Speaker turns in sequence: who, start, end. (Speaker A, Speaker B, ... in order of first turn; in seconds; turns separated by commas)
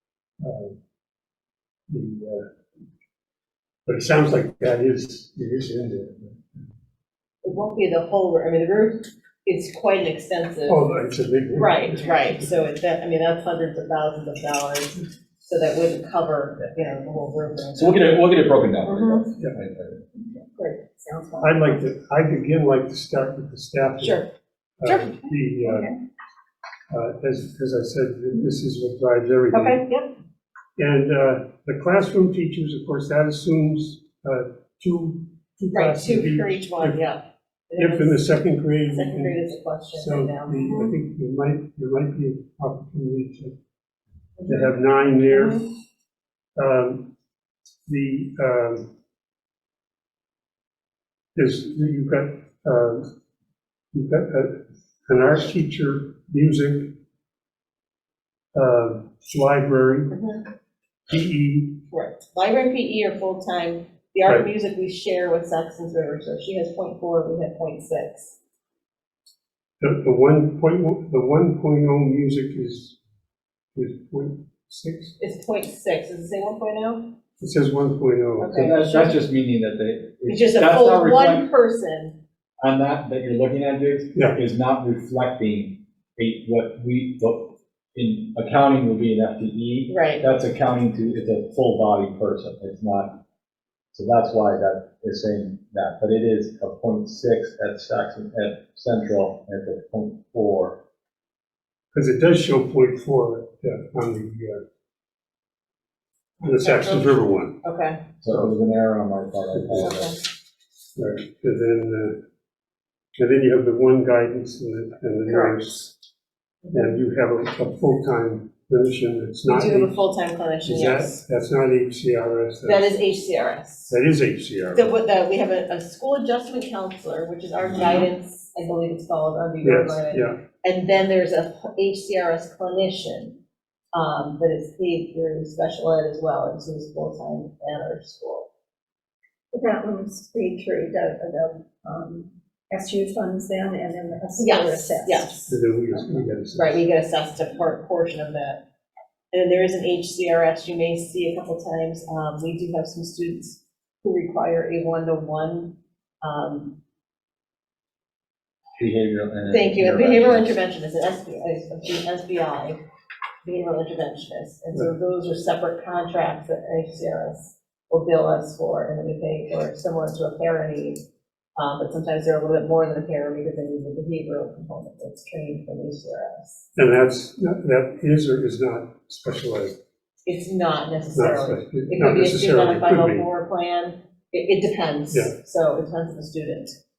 Speaker A: 0.4-0.8, Speaker A: 1.9-2.4, Speaker A: 3.9-6.4, Speaker B: 7.4-10.8, Speaker A: 10.7-12.3, Speaker B: 11.5-18.3, Speaker C: 17.8-20.0, Speaker B: 18.8-19.3, Speaker A: 19.3-19.6, Speaker D: 20.2-21.8, Speaker A: 21.4-24.2, Speaker B: 24.0-24.3, Speaker A: 24.8-25.9, Speaker B: 24.9-25.3, Speaker A: 26.9-29.8, Speaker B: 29.5-30.1, Speaker A: 30.8-37.0, Speaker B: 35.7-38.2, Speaker A: 37.8-43.5, Speaker B: 38.9-40.9, Speaker B: 44.4-44.7, Speaker A: 44.5-45.6, Speaker B: 45.3-45.6, Speaker A: 46.6-47.1, Speaker A: 47.9-48.9, Speaker A: 51.4-53.1, Speaker A: 53.9-57.0, Speaker A: 58.5-60.1, Speaker B: 60.1-60.5, Speaker A: 61.1-61.8, Speaker B: 61.9-68.3, Speaker A: 69.8-73.0, Speaker A: 73.8-75.1, Speaker B: 75.2-77.1, Speaker A: 77.4-78.6, Speaker B: 78.4-79.1, Speaker C: 78.5-81.5, Speaker B: 80.3-82.2, Speaker C: 82.6-93.2, Speaker A: 84.1-84.4, Speaker B: 89.9-90.2, Speaker C: 93.9-100.8, Speaker A: 101.9-104.6, Speaker B: 106.4-108.0, Speaker A: 106.4-107.5, Speaker C: 108.2-110.2, Speaker A: 109.5-110.0, Speaker B: 109.8-110.2, Speaker A: 111.0-112.2, Speaker A: 113.2-116.0, Speaker B: 115.3-115.6, Speaker B: 116.6-117.0, Speaker A: 116.7-120.0, Speaker B: 119.5-121.2, Speaker A: 120.6-123.0, Speaker B: 122.6-124.0, Speaker A: 123.9-124.9, Speaker B: 124.7-133.4, Speaker A: 129.6-130.4, Speaker B: 133.9-138.5, Speaker D: 139.5-145.4, Speaker B: 144.4-145.6, Speaker A: 145.5-146.8, Speaker B: 146.5-148.6, Speaker B: 149.3-156.8, Speaker C: 158.8-160.5, Speaker B: 159.5-162.8, Speaker B: 163.4-171.0, Speaker B: 171.6-176.7, Speaker A: 176.8-179.8, Speaker B: 180.3-186.8, Speaker A: 181.1-183.3, Speaker A: 185.1-185.4